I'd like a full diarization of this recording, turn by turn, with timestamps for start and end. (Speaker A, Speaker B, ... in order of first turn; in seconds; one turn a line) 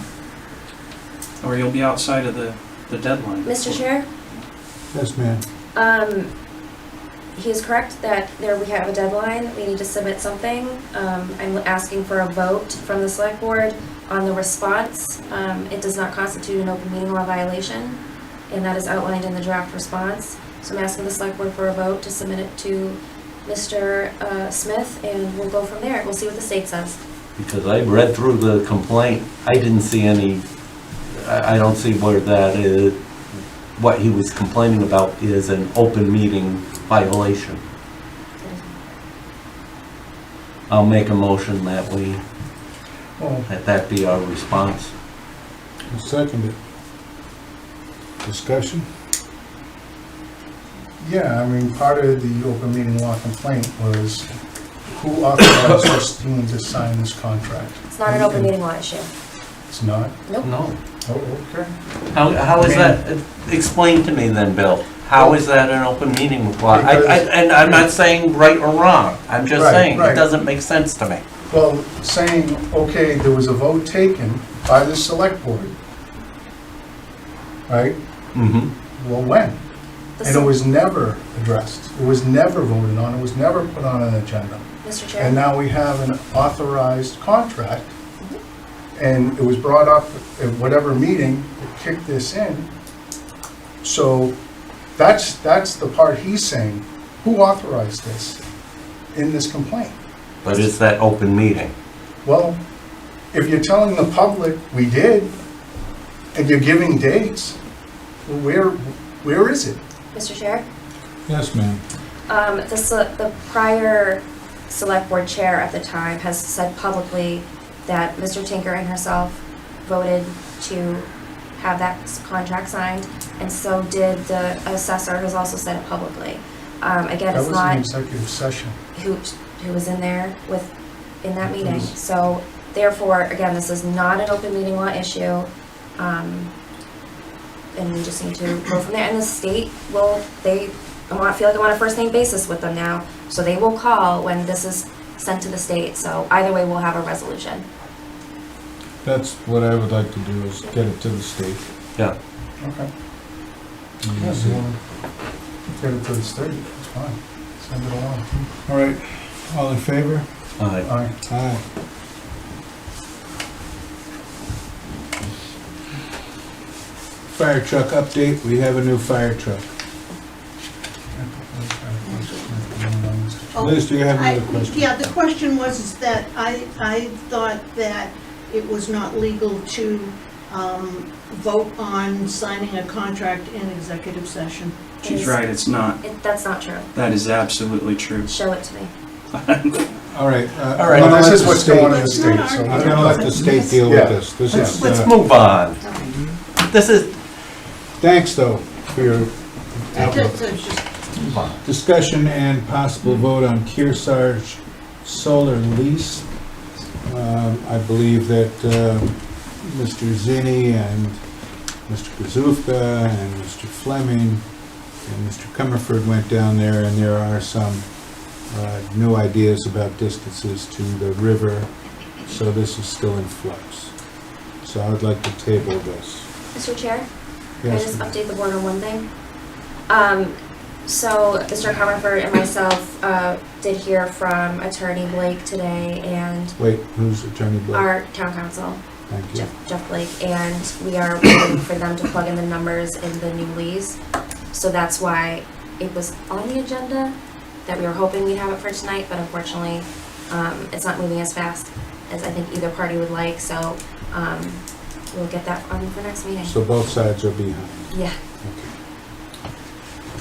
Speaker A: 1.4-3.8
Speaker B: 3.4-4.0
Speaker C: 4.9-5.4
Speaker B: 5.7-6.3
Speaker B: 7.3-27.0
Speaker D: 27.4-30.4
Speaker D: 31.1-37.6
Speaker B: 38.4-38.8
Speaker D: 40.7-42.2
Speaker E: 43.2-43.5
Speaker D: 43.5-44.9
Speaker C: 45.9-46.6
Speaker C: 48.2-48.9
Speaker E: 51.0-54.3
Speaker E: 54.9-58.5
Speaker B: 57.9-59.1
Speaker E: 59.7-60.1
Speaker D: 60.4-60.8
Speaker E: 61.0-61.7
Speaker D: 62.1-71.2
Speaker E: 62.5-63.0
Speaker E: 65.2-65.4
Speaker E: 66.7-67.8
Speaker E: 69.5-70.2
Speaker E: 71.5-75.7
Speaker E: 77.7-78.0
Speaker D: 78.3-78.7
Speaker E: 79.0-79.6
Speaker B: 80.2-80.5
Speaker E: 80.2-84.6
Speaker B: 84.8-85.4
Speaker E: 85.2-87.9
Speaker E: 88.9-92.7
Speaker E: 93.8-94.3
Speaker E: 95.0-98.4
Speaker E: 99.1-100.0
Speaker D: 100.4-101.7
Speaker E: 102.2-102.6
Speaker E: 103.3-105.3
Speaker E: 106.3-107.6
Speaker E: 108.2-109.8
Speaker B: 110.1-110.7
Speaker C: 111.3-111.8
Speaker B: 112.3-127.8
Speaker E: 127.3-128.8
Speaker B: 128.9-130.7
Speaker B: 131.2-136.5
Speaker E: 131.4-131.9
Speaker B: 137.7-147.7
Speaker C: 149.0-151.6
Speaker E: 152.6-152.9
Speaker C: 154.0-154.6
Speaker E: 154.2-154.8
Speaker E: 155.8-158.4
Speaker C: 158.7-160.3
Speaker D: 160.6-160.9
Speaker E: 160.8-161.1
Speaker C: 161.3-161.6
Speaker C: 167.3-169.7
Speaker E: 171.1-173.8
Speaker F: 172.0-172.5
Speaker F: 173.5-184.9
Speaker C: 173.6-174.9
Speaker B: 185.0-185.4
Speaker A: 185.0-186.0
Speaker B: 186.0-186.9
Speaker A: 186.9-188.3
Speaker B: 188.2-188.9
Speaker A: 189.4-189.8
Speaker C: 190.1-195.1
Speaker D: 190.8-191.5
Speaker E: 190.9-194.8
Speaker F: 191.7-193.8
Speaker D: 194.5-195.8
Speaker F: 195.8-196.2
Speaker D: 196.6-197.1
Speaker C: 198.0-200.4
Speaker F: 199.9-201.0
Speaker D: 201.2-201.6
Speaker C: 201.6-206.3
Speaker C: 207.0-211.2
Speaker C: 211.9-214.4
Speaker C: 215.0-217.9
Speaker C: 218.4-221.7
Speaker C: 222.2-223.9
Speaker C: 224.6-226.3
Speaker B: 226.5-227.1
Speaker C: 227.6-228.1
Speaker B: 227.6-229.1
Speaker B: 229.9-230.3
Speaker B: 230.8-236.5
Speaker C: 236.6-237.9
Speaker B: 237.7-238.8
Speaker C: 239.1-239.5
Speaker B: 239.3-244.0
Speaker B: 244.5-256.5
Speaker C: 256.4-258.7